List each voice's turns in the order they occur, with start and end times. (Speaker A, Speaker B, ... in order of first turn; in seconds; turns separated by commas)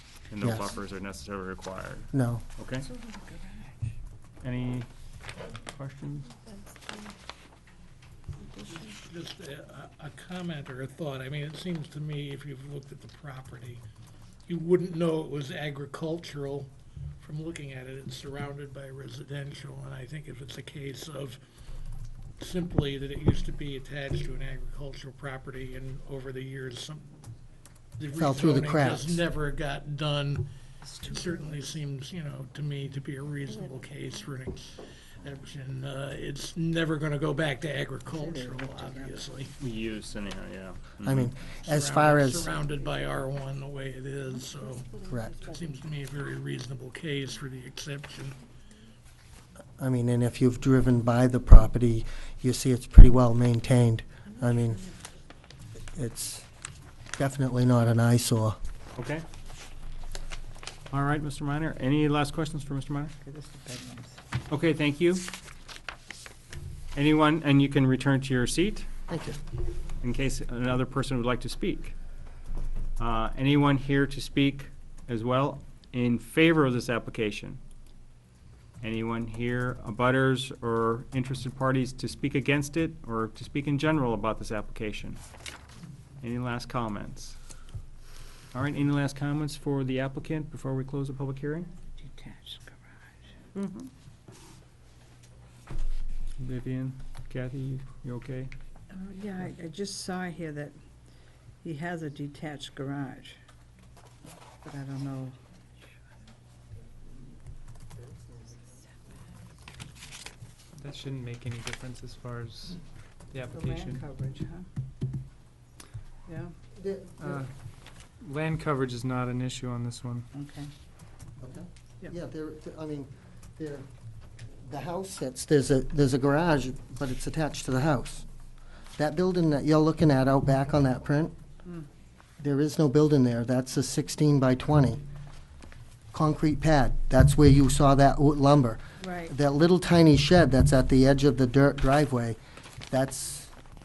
Speaker A: 0.3-2.9, Speaker B: 0.4-0.7, Speaker B: 2.1-2.4, Speaker C: 2.8-3.9, Speaker A: 4.4-4.9, Speaker A: 5.4-6.3, Speaker C: 6.5-7.0, Speaker D: 8.7-13.8, Speaker D: 14.5-21.4, Speaker D: 22.4-27.1, Speaker D: 28.0-30.5, Speaker B: 28.1-29.2, Speaker C: 30.9-31.4, Speaker D: 31.0-39.5, Speaker C: 38.0-39.2, Speaker A: 39.6-41.3, Speaker B: 41.0-42.5, Speaker D: 41.6-48.4, Speaker B: 45.1-45.4, Speaker B: 49.8-54.9, Speaker B: 55.9-56.5, Speaker B: 57.2-58.6, Speaker A: 59.0-59.2, Speaker A: 60.9-63.1, Speaker C: 63.2-64.2, Speaker A: 64.5-65.3, Speaker A: 66.9-68.9, Speaker B: 69.1-69.4, Speaker A: 70.0-71.9, Speaker A: 73.0-77.6, Speaker A: 78.8-85.2, Speaker A: 86.2-87.4, Speaker A: 88.5-91.7, Speaker C: 92.0-93.1, Speaker A: 93.5-93.8, Speaker A: 96.4-98.5, Speaker C: 98.9-100.8, Speaker C: 101.6-103.4, Speaker C: 104.6-105.4, Speaker E: 110.8-114.0, Speaker C: 113.5-114.7, Speaker C: 116.2-116.5, Speaker B: 116.8-117.4, Speaker E: 117.2-117.5, Speaker E: 118.2-120.2, Speaker C: 120.3-120.7, Speaker B: 121.4-123.9, Speaker B: 124.6-128.2, Speaker B: 129.0-131.3, Speaker B: 132.4-135.0, Speaker B: 136.1-142.4, Speaker C: 139.0-139.3, Speaker B: 142.9-143.5